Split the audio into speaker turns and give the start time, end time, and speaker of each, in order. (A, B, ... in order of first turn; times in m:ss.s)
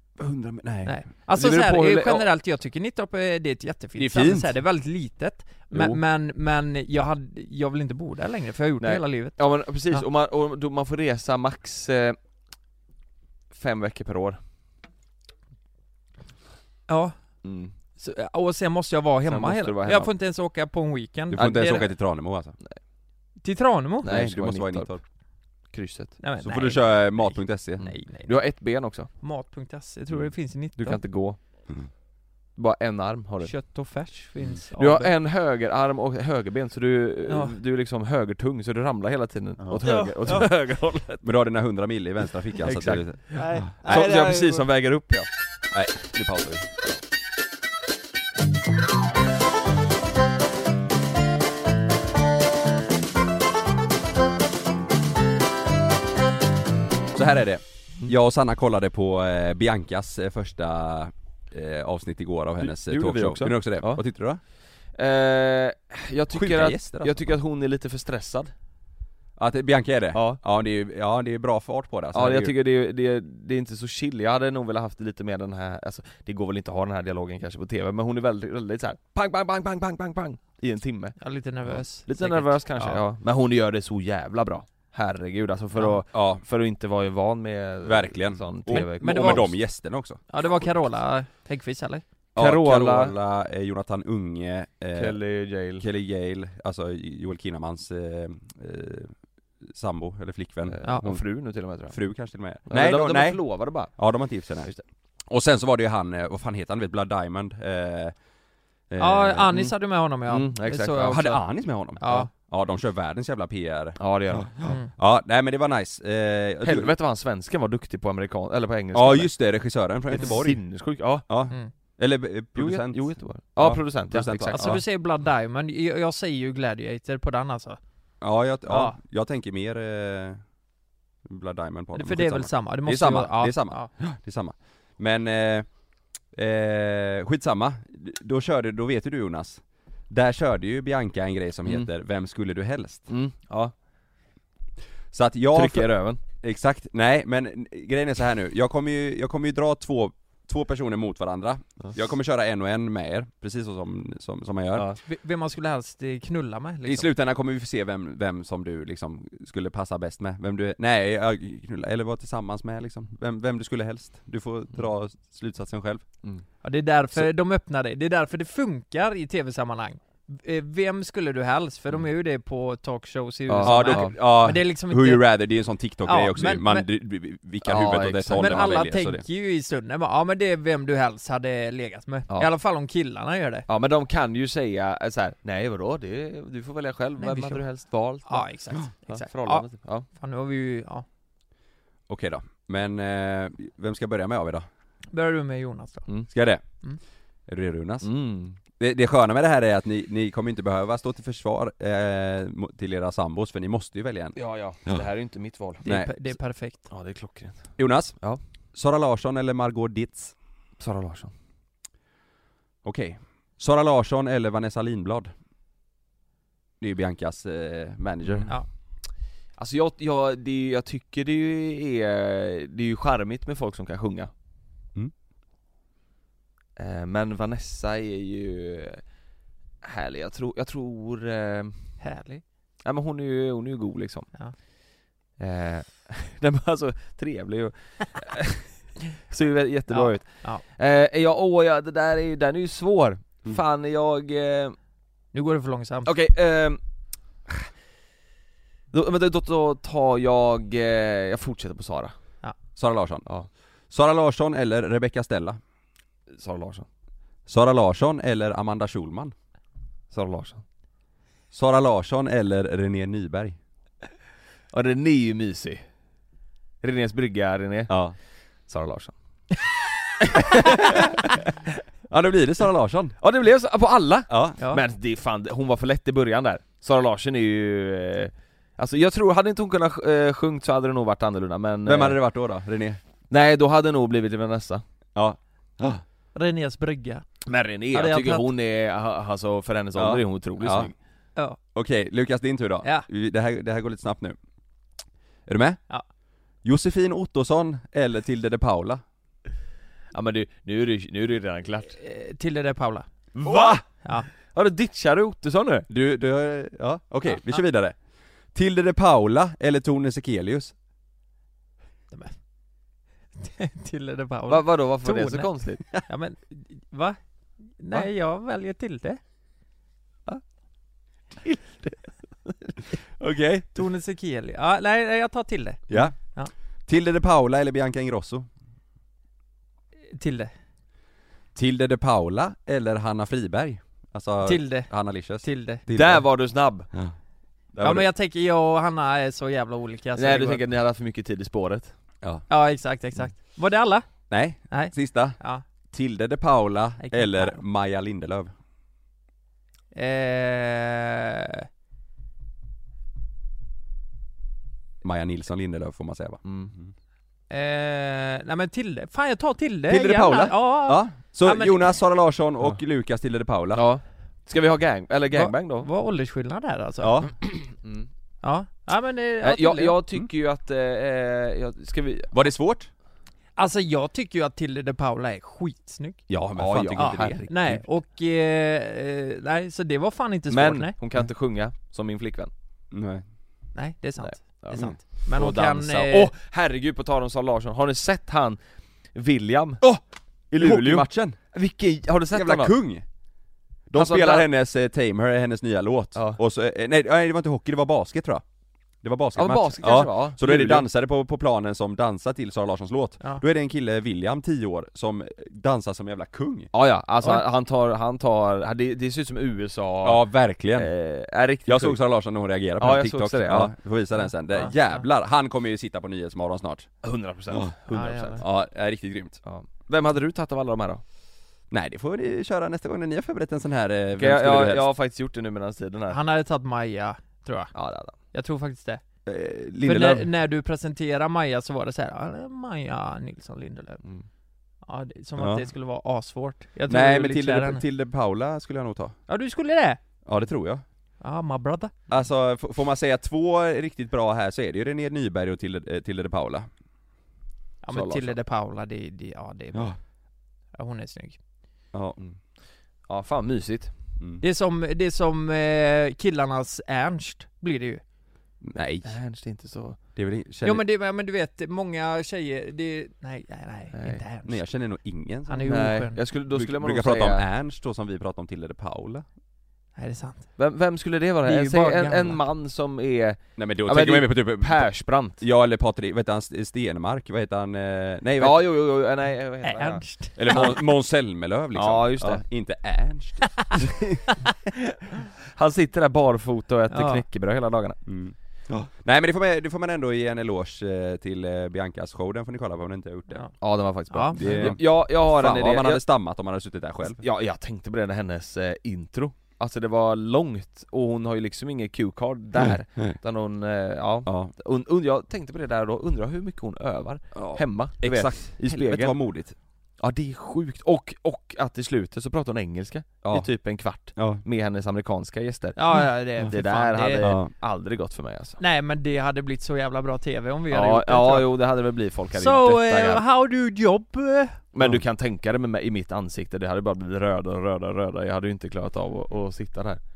0:00.2-0:01.0 A
0:00.8-0:10.0 B
0:01.3-0:02.3 C
0:04.0-0:04.6 A
0:05.7-0:06.0 C
0:08.8-0:12.2 C
0:13.5-0:14.4 C
0:16.9-0:17.4 B
0:17.4-0:17.7 C
0:18.0-0:21.9 B
0:19.2-0:20.1 C
0:21.3-0:22.6 A
0:21.4-0:22.0 C
0:23.4-0:24.1 B
0:24.0-0:25.0 C
0:24.0-0:25.0 A
0:25.7-0:26.2 C
0:26.2-0:31.0 B
0:26.4-0:27.9 A
0:27.8-0:29.1 C
0:30.8-0:31.4 C
0:32.6-0:33.6 C
0:33.4-0:35.1 B
0:34.8-0:41.2 C
0:37.3-0:37.5 B
0:39.6-0:40.5 A
0:39.8-0:40.5 B
0:41.2-0:43.7 A
0:42.6-0:45.3 C
0:43.3-0:44.7 B
0:45.7-0:46.7 A
0:57.1-1:04.4 A
1:02.6-1:04.0 C
1:04.9-1:08.5 C
1:06.3-1:07.3 A
1:09.4-1:12.5 A
1:10.1-1:10.4 C
1:12.1-1:29.5 C
1:21.2-1:23.0 B
1:26.1-1:26.4 A
1:27.8-1:30.2 A
1:28.7-1:29.6 B
1:30.3-1:32.0 B
1:32.3-1:35.2 A
1:32.4-1:33.1 C
1:34.9-1:35.8 C
1:35.8-1:41.2 A
1:40.7-1:42.0 C
1:41.9-1:44.7 A
1:42.6-1:44.8 C
1:45.3-1:48.2 A
1:48.9-1:49.5 A
1:49.0-1:52.3 B
1:50.2-1:51.3 C
1:51.1-1:56.9 A
1:54.0-1:54.6 C
1:54.6-1:54.9 B
1:56.6-1:59.4 C
1:58.9-2:04.8 A
2:00.1-2:01.2 C
2:02.6-2:04.8 C
2:04.5-2:07.8 B
2:08.2-2:10.4 A
2:08.7-2:09.0 B
2:11.2-2:23.0 A
2:11.9-2:13.9 B
2:23.1-2:23.7 C
2:25.1-2:34.9 A
2:25.5-2:26.2 C
2:34.7-2:35.0 C
2:35.0-2:37.1 B
2:36.8-2:46.0 A
2:46.6-2:55.4 B
2:53.5-2:54.1 C
2:53.6-2:59.2 A
2:56.0-2:56.8 B
2:57.6-2:58.7 C
2:58.3-3:03.7 B
3:03.7-3:10.0 C
3:07.2-3:07.7 B
3:08.2-3:11.0 B
3:12.1-3:14.6 A
3:15.1-3:16.1 B
3:16.3-3:16.6 A
3:17.4-3:18.1 A
3:18.0-3:18.6 C
3:18.8-3:25.0 A
3:24.4-3:25.8 C
3:25.8-3:26.8 B
3:25.8-3:26.1 A
3:26.9-3:28.4 C
3:27.8-3:28.2 A
3:28.7-3:30.3 A
3:30.8-3:31.3 C
3:32.8-3:35.3 A
3:36.8-3:38.5 A
3:38.2-3:38.5 C
3:39.5-3:44.3 C
3:46.8-3:49.1 C
3:49.8-3:52.0 C
3:52.0-3:52.4 B
3:52.8-4:04.8 C
3:59.9-4:00.6 B
4:05.3-4:06.1 B
4:06.0-4:06.8 C
4:08.9-4:12.1 C
4:12.8-4:13.2 A
4:13.9-4:15.6 A
4:16.3-4:16.8 C
4:17.5-4:19.3 A
4:20.1-4:20.6 C
4:21.5-4:23.6 A
4:24.7-4:25.8 C
4:26.8-4:29.1 C
4:27.9-4:28.2 A
4:30.3-4:31.0 C
4:32.1-4:33.2 A
4:33.2-4:42.2 C
4:34.3-4:34.6 A
4:41.8-4:43.0 A
4:43.3-4:44.8 C
4:45.1-4:46.0 A
4:46.3-4:47.2 B
4:47.4-4:50.9 C
4:47.9-4:48.5 B
4:50.0-4:50.9 A
4:51.7-4:54.4 A
4:55.4-4:55.8 A
4:56.6-4:59.0 A
5:00.1-5:02.0 C
5:02.0-5:03.1 B
5:03.3-5:05.8 C
5:03.4-5:03.8 A
5:05.9-5:08.0 A
5:07.3-5:07.6 B
5:08.5-5:10.7 A
5:12.1-5:12.4 B
5:13.4-5:19.2 B
5:14.5-5:15.8 C
5:21.4-5:22.1 C
5:23.2-5:23.8 A
5:23.7-5:26.5 B
5:25.9-5:26.3 A
5:26.9-5:28.5 A
5:30.1-5:30.5 B
5:31.5-5:37.2 A
5:34.4-5:35.8 B
5:35.9-5:36.9 C
5:37.7-5:38.1 A
5:37.8-5:40.6 B
5:40.2-5:41.9 C
5:42.2-5:42.5 A
5:42.5-5:45.6 B
5:44.3-5:45.4 A
5:45.9-5:48.5 A
5:47.0-5:47.6 B
5:49.9-5:51.6 B
5:55.0-5:56.9 A
5:56.4-5:56.7 C
5:57.5-6:02.0 B
5:59.9-6:03.8 A
6:03.7-6:05.9 C
6:05.3-6:07.3 B
6:07.0-6:07.3 A
6:07.8-6:08.1 C
6:08.4-6:10.0 B
6:09.4-6:12.3 C
6:12.3-6:12.9 A
6:13.6-6:16.2 B
6:16.3-6:17.8 A
6:16.6-6:17.8 C
6:17.0-6:20.9 B
6:20.5-6:22.5 C
6:22.9-6:23.2 A
6:23.7-6:26.3 B
6:24.2-6:30.0 C
6:30.5-6:32.7 C
6:30.6-6:31.4 A
6:32.3-6:33.0 A
6:33.9-6:38.4 A
6:33.9-6:34.5 C
6:36.1-6:36.4 C
6:39.0-6:46.7 A
6:39.4-6:40.8 C
6:46.7-6:52.0 C
6:50.0-6:50.9 A
6:51.6-6:56.9 A
6:52.8-6:53.7 C
6:57.0-6:58.4 C
6:57.9-6:58.4 B
6:58.4-6:59.4 A
6:59.4-7:01.0 C
7:01.7-7:04.9 A
7:04.2-7:06.2 C
7:06.1-7:09.0 B
7:07.7-7:08.2 C
7:09.2-7:10.3 A
7:09.8-7:14.0 B
7:14.8-7:17.8 B
7:15.4-7:15.7 A
7:16.9-7:19.2 A
7:19.3-7:20.0 B
7:20.2-7:20.8 A
7:21.2-7:21.9 B
7:22.1-7:26.7 A
7:27.8-7:30.0 B
7:27.9-7:28.4 C
7:30.7-7:31.4 B
7:31.9-7:32.2 A
7:33.0-7:33.9 C
7:34.4-7:38.0 B
7:38.6-7:39.1 A
7:39.0-7:40.0 C
7:40.2-7:40.8 A
7:40.6-7:44.6 B
7:43.9-7:44.2 C
7:44.4-7:45.8 A
7:45.5-7:46.2 B
7:45.7-7:47.4 C
7:46.5-7:49.2 A
7:50.0-7:50.5 B
7:50.6-7:55.4 C
7:51.4-7:52.4 B
7:53.6-7:58.6 A
7:58.4-8:00.8 C
7:59.6-8:00.3 B
8:00.4-8:04.2 A
8:01.7-8:02.4 C
8:04.3-8:04.5 B
8:05.5-8:08.0 C
8:06.9-8:07.2 B
8:08.0-8:13.5 A
8:13.6-8:16.0 C
8:14.1-8:14.8 B
8:14.3-8:17.2 A
8:17.2-8:29.2 C
8:24.2-8:24.5 A
8:27.3-8:29.5 A
8:30.0-8:38.6 C
8:33.2-8:34.4 A
8:35.8-8:37.3 B
8:37.2-8:37.5 A
8:38.6-8:41.5 B
8:40.7-8:43.2 C
8:42.3-8:44.6 B
8:44.7-8:50.0 C